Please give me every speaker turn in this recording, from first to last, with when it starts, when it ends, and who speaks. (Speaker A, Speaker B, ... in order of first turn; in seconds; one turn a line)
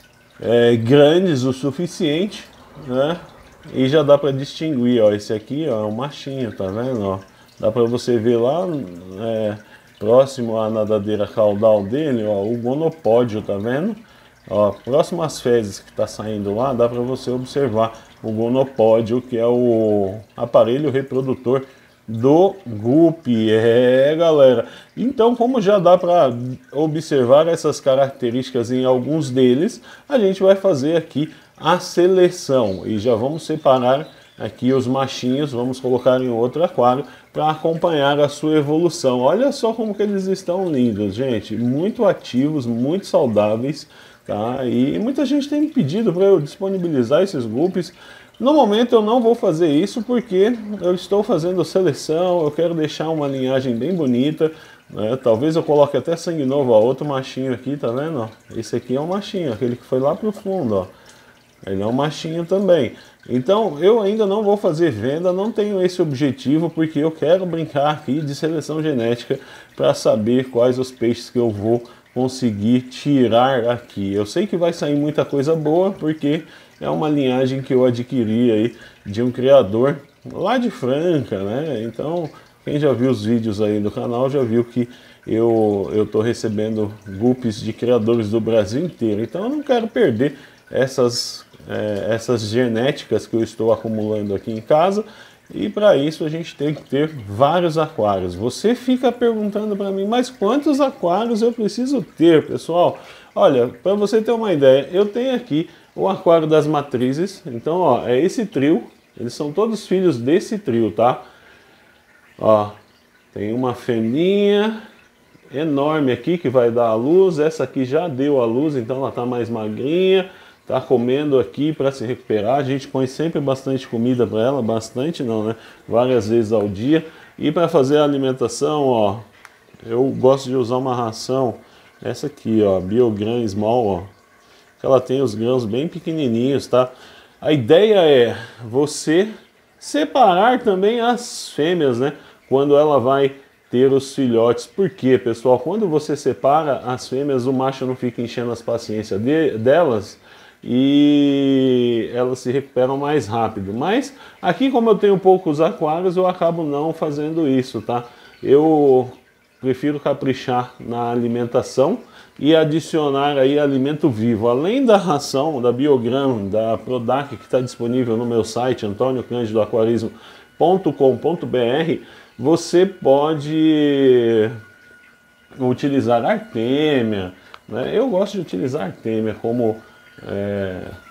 Speaker A: 0.4-60.9
Speaker A: 61.6-111.2
Speaker A: 112.4-112.8
Speaker A: 113.3-114.8
Speaker A: 115.5-129.2
Speaker A: 129.8-134.1
Speaker A: 134.8-174.6
Speaker A: 175.6-180.9